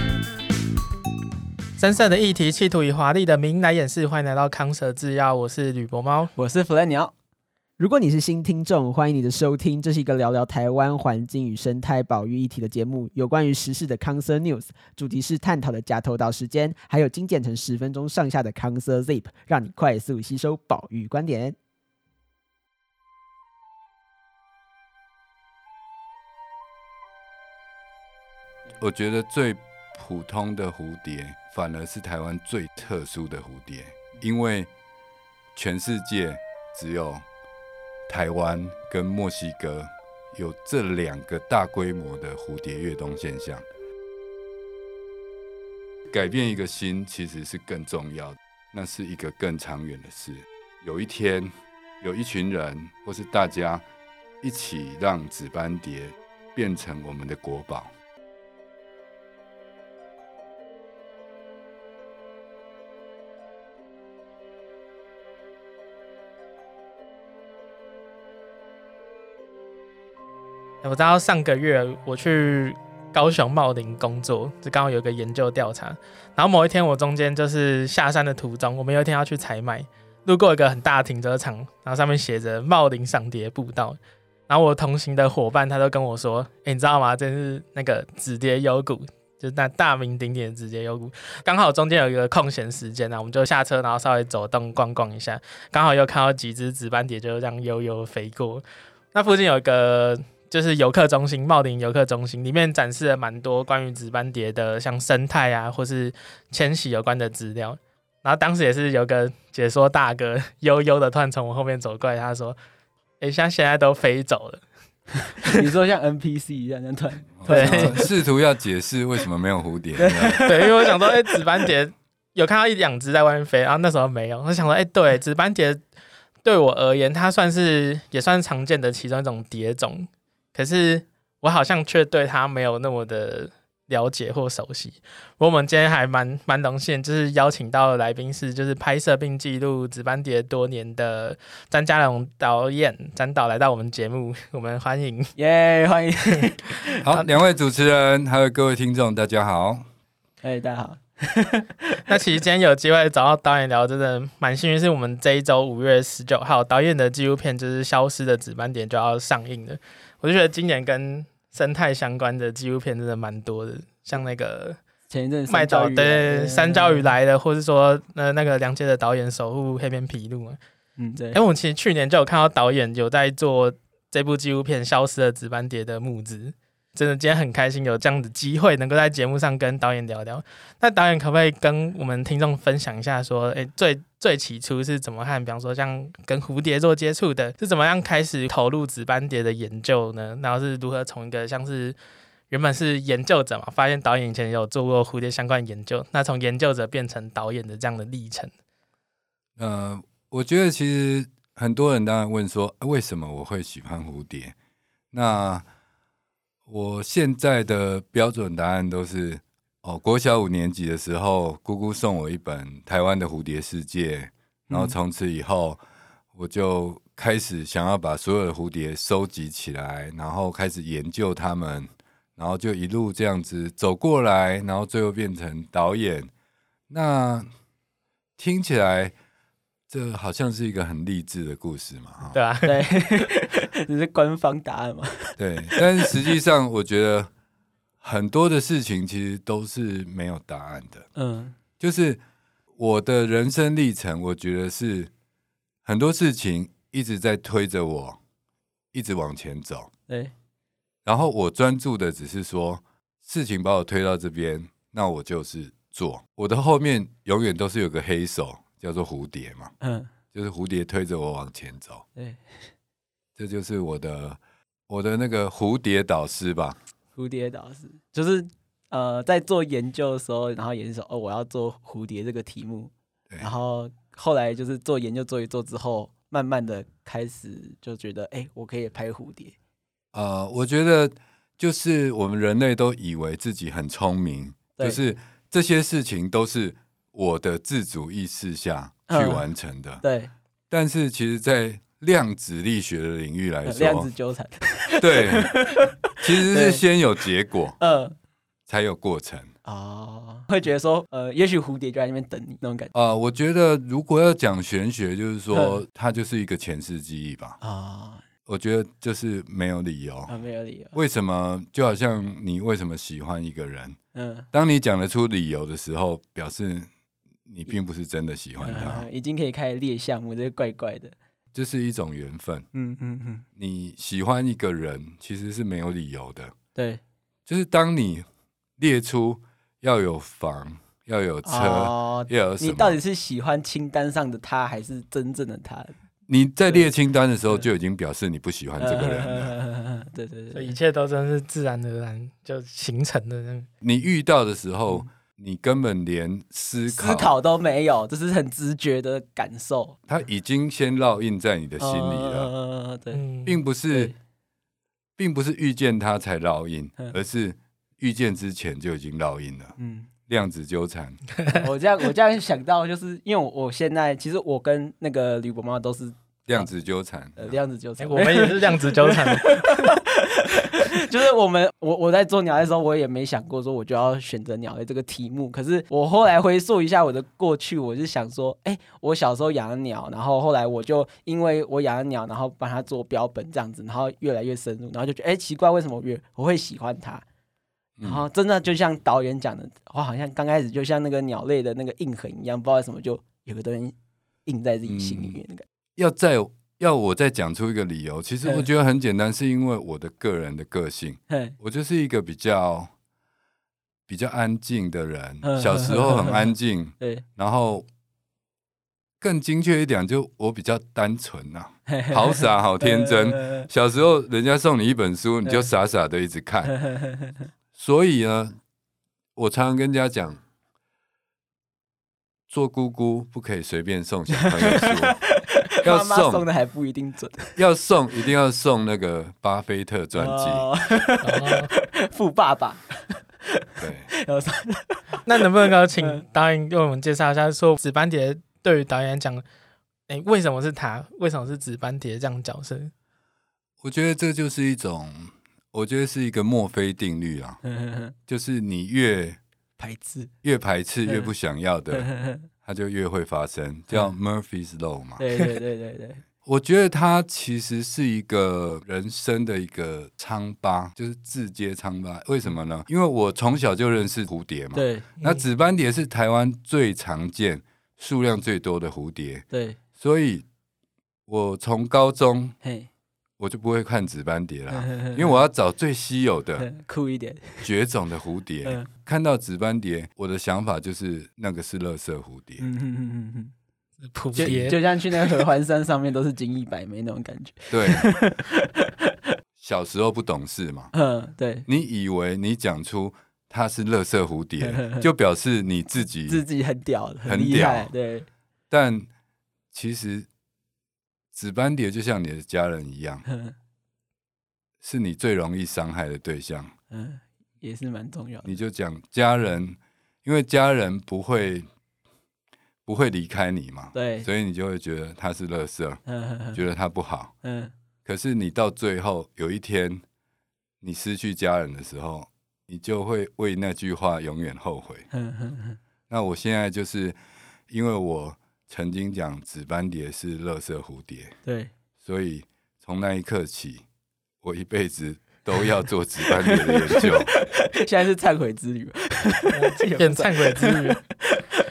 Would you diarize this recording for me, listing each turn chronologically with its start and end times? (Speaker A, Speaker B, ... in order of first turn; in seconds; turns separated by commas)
Speaker A: 1.8-6.3, Speaker B: 6.4-7.1, Speaker C: 7.8-21.6, Speaker D: 28.8-34.7, Speaker D: 35.5-37.2, Speaker D: 38.1-43.6, Speaker D: 46.1-53.8, Speaker D: 54.4-57.9, Speaker A: 70.8-84.0, Speaker A: 84.5-112.6, Speaker A: 113.2-114.6, Speaker B: 115.4-118.1, Speaker D: 117.4-120.5, Speaker A: 117.5-118.0, Speaker B: 120.0-121.4, Speaker A: 120.4-125.8, Speaker A: 126.4-145.3, Speaker B: 145.4-146.9, Speaker D: 147.0-149.8, Speaker B: 150.4-152.2, Speaker A: 152.1-164.8, Speaker B: 165.1-167.1, Speaker A: 165.5-170.6, Speaker B: 171.0-171.4, Speaker A: 171.3-192.0, Speaker A: 192.5-198.5, Speaker D: 199.6-204.6, Speaker D: 205.1-205.7, Speaker D: 206.7-215.8, Speaker B: 214.7-214.9, Speaker D: 216.3-226.3, Speaker D: 226.9-227.5, Speaker D: 228.4-229.1, Speaker D: 229.9-232.4, Speaker A: 232.3-233.0, Speaker B: 232.7-236.2, Speaker D: 235.4-237.3, Speaker D: 238.0-241.1, Speaker B: 241.2-241.6, Speaker D: 241.8-242.2, Speaker D: 242.8-245.1, Speaker D: 245.8-248.2, Speaker D: 248.9-249.9, Speaker B: 250.1-250.3, Speaker D: 251.1-259.7, Speaker B: 259.8-260.1, Speaker D: 260.3-262.1, Speaker B: 262.2-262.7, Speaker D: 263.4-266.8, Speaker B: 267.1-279.6, Speaker D: 280.1-290.0, Speaker B: 289.1-289.5, Speaker B: 290.0-290.3, Speaker D: 290.7-294.1, Speaker B: 293.7-296.8, Speaker D: 295.0-295.6, Speaker D: 296.2-297.8, Speaker B: 297.8-298.1, Speaker D: 298.7-299.5, Speaker B: 299.6-302.9, Speaker D: 302.9-307.6, Speaker B: 307.6-308.2, Speaker D: 308.5-310.3, Speaker B: 310.3-311.0, Speaker D: 310.9-314.0, Speaker B: 314.1-314.5, Speaker D: 314.5-316.9, Speaker D: 317.5-319.1, Speaker B: 318.6-321.1, Speaker D: 321.5-322.7, Speaker B: 322.7-323.4, Speaker D: 323.6-326.5, Speaker B: 326.8-327.0, Speaker D: 327.5-328.3, Speaker D: 328.8-333.0, Speaker B: 331.4-336.0, Speaker D: 336.3-339.6, Speaker B: 338.8-340.8, Speaker A: 340.5-343.7, Speaker D: 343.8-347.3, Speaker B: 346.9-350.0, Speaker D: 350.1-352.5, Speaker B: 351.8-353.2, Speaker A: 353.1-353.6, Speaker D: 353.5-354.1, Speaker B: 353.9-354.1, Speaker D: 355.2-359.8, Speaker B: 359.8-360.1, Speaker D: 360.3-361.2, Speaker B: 361.5-366.7, Speaker D: 366.5-367.6, Speaker B: 367.4-387.2, Speaker A: 368.0-369.9, Speaker D: 388.0-388.2, Speaker B: 388.0-393.9, Speaker B: 394.5-395.7, Speaker D: 394.9-395.4, Speaker D: 396.0-402.9, Speaker B: 401.3-401.6, Speaker D: 404.1-407.9, Speaker B: 405.4-407.2, Speaker D: 409.2-416.8, Speaker B: 411.9-413.7, Speaker B: 416.7-417.5, Speaker D: 417.7-418.6, Speaker D: 419.4-420.4, Speaker D: 422.5-425.2, Speaker B: 424.4-427.6, Speaker D: 425.8-426.5, Speaker D: 427.6-430.7, Speaker B: 430.1-435.2, Speaker A: 431.2-431.7, Speaker D: 433.8-434.1, Speaker A: 435.3-439.4, Speaker B: 436.0-436.2, Speaker A: 440.1-442.9, Speaker D: 443.8-447.6, Speaker B: 447.6-448.1, Speaker D: 448.3-449.4, Speaker B: 449.8-450.3, Speaker D: 450.4-452.1, Speaker B: 451.9-452.5, Speaker D: 452.6-455.2, Speaker B: 455.2-456.2, Speaker D: 456.4-469.5, Speaker B: 464.7-465.1, Speaker B: 469.5-469.8, Speaker D: 470.0-470.4, Speaker D: 471.3-472.6, Speaker B: 472.6-472.9, Speaker D: 473.4-476.7, Speaker B: 474.7-475.3, Speaker B: 476.6-477.7, Speaker D: 477.6-482.7, Speaker B: 478.6-478.9, Speaker B: 482.6-483.5, Speaker A: 484.1-484.8, Speaker B: 484.4-489.1, Speaker D: 484.4-484.7, Speaker D: 487.7-488.1, Speaker D: 489.6-490.9, Speaker B: 490.9-491.7, Speaker D: 491.7-496.4, Speaker B: 494.6-495.1, Speaker B: 496.3-498.3, Speaker D: 497.2-497.9, Speaker D: 498.7-499.1, Speaker D: 499.7-500.3, Speaker D: 501.3-503.2, Speaker B: 503.2-503.6, Speaker D: 504.8-506.7, Speaker B: 506.9-508.5, Speaker D: 508.4-511.7, Speaker D: 512.9-516.0, Speaker B: 514.0-514.3, Speaker B: 516.1-516.6, Speaker D: 516.5-517.4, Speaker B: 517.4-517.7, Speaker D: 518.0-520.0, Speaker D: 520.8-525.1, Speaker B: 525.1-525.8, Speaker D: 526.1-527.2, Speaker D: 527.7-531.4, Speaker B: 531.5-531.7, Speaker D: 532.0-533.9, Speaker D: 534.4-537.3, Speaker B: 536.3-541.6, Speaker A: 539.5-541.0